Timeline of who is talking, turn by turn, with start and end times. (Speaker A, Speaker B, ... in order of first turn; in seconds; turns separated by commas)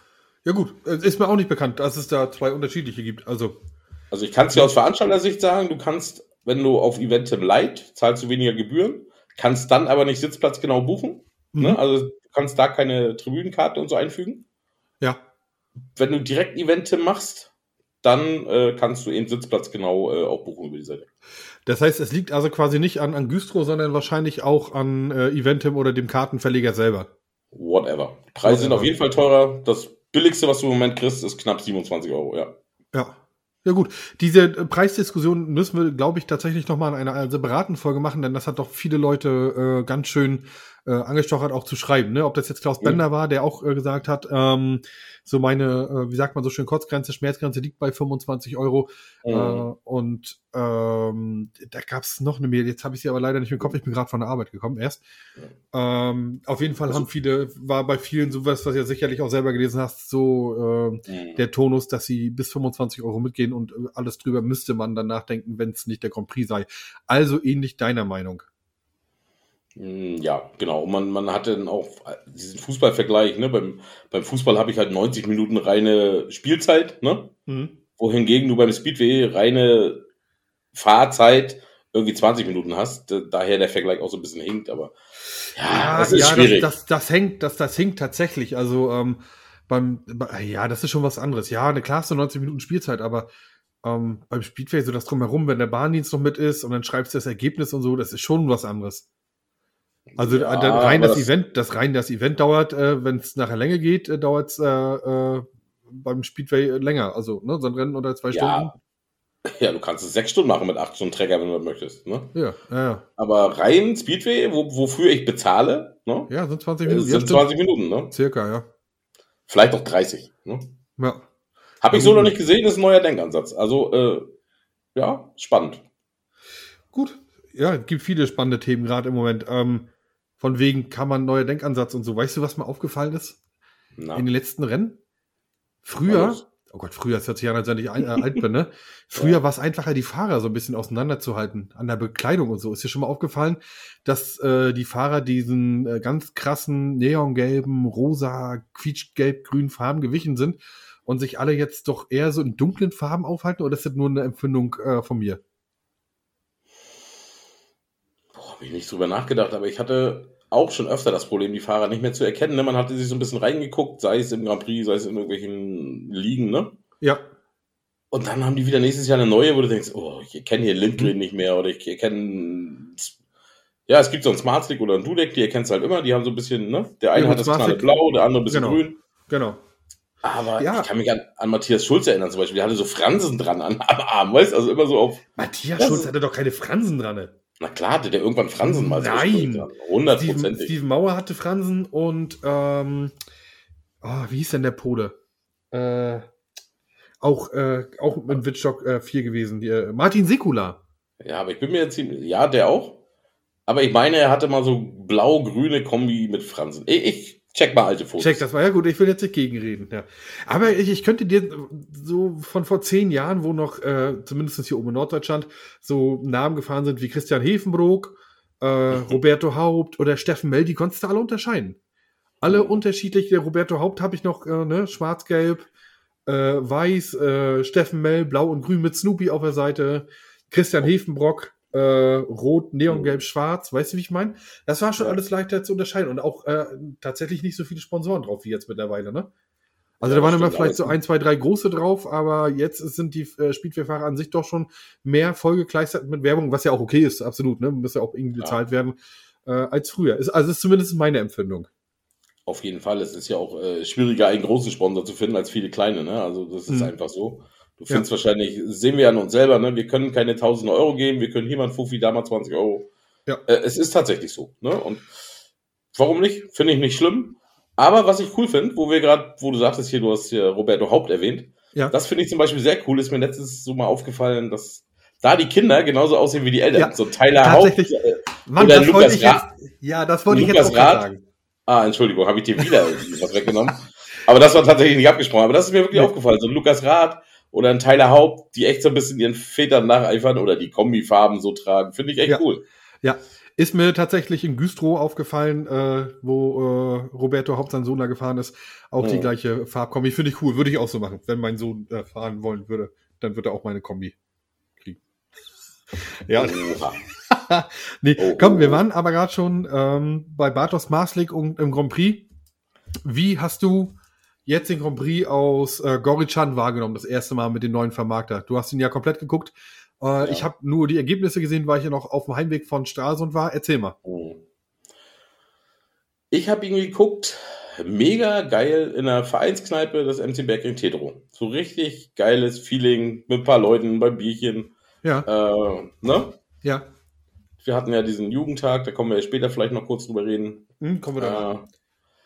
Speaker A: 0.4-3.6, Speaker B: 4.1-14.4, Speaker A: 11.5-11.8, Speaker B: 15.9-17.5, Speaker B: 18.0-21.1, Speaker A: 21.6-27.1, Speaker B: 27.5-32.5, Speaker A: 28.4-28.9, Speaker A: 32.9-55.0, Speaker B: 49.2-49.6, Speaker A: 55.7-68.5, Speaker B: 61.1-61.4, Speaker B: 69.8-77.3, Speaker A: 77.5-77.7, Speaker B: 78.0-80.0, Speaker B: 80.7-84.9, Speaker B: 85.5-86.7, Speaker A: 85.6-93.3, Speaker A: 93.8-99.0, Speaker B: 100.1-101.3, Speaker A: 100.2-108.7, Speaker B: 108.3-108.7, Speaker B: 109.4-112.3, Speaker A: 112.3-113.0, Speaker B: 113.2-116.3, Speaker A: 116.3-117.5, Speaker B: 116.8-118.1, Speaker A: 118.1-118.7, Speaker B: 119.5-120.7, Speaker A: 121.0-121.2, Speaker B: 121.8-124.3, Speaker A: 121.9-122.3, Speaker B: 124.9-125.8, Speaker A: 126.9-129.9, Speaker A: 130.4-133.4, Speaker B: 133.9-134.2, Speaker A: 134.1-135.0, Speaker A: 135.8-155.4, Speaker B: 136.1-136.4, Speaker B: 139.1-139.4, Speaker B: 158.3-166.7, Speaker B: 168.1-173.1, Speaker B: 173.9-179.0, Speaker A: 177.1-177.9, Speaker A: 178.4-179.6, Speaker B: 180.2-185.2, Speaker A: 180.6-180.9, Speaker A: 185.4-187.3, Speaker B: 185.8-186.1, Speaker B: 187.6-190.7, Speaker A: 188.6-193.1, Speaker A: 194.0-195.2, Speaker A: 195.7-196.2, Speaker A: 197.2-200.8, Speaker B: 201.2-203.0, Speaker B: 203.7-208.4, Speaker A: 208.2-221.8, Speaker B: 218.9-219.2, Speaker A: 222.4-225.7, Speaker B: 222.4-222.8, Speaker A: 226.2-239.3, Speaker B: 232.9-233.2, Speaker A: 240.0-251.7, Speaker B: 240.0-241.0, Speaker B: 252.4-262.9, Speaker B: 263.4-265.1, Speaker B: 265.9-279.5, Speaker A: 276.7-281.2, Speaker B: 280.3-281.0, Speaker B: 281.7-292.6, Speaker A: 293.0-304.1, Speaker B: 299.0-299.3, Speaker A: 306.2-306.7, Speaker B: 306.4-307.0, Speaker A: 307.3-312.3, Speaker B: 308.2-308.8, Speaker A: 313.0-323.9, Speaker B: 320.2-320.5, Speaker B: 324.0-324.4, Speaker B: 326.3-334.7, Speaker B: 335.2-336.4, Speaker B: 337.6-341.6, Speaker A: 340.8-341.4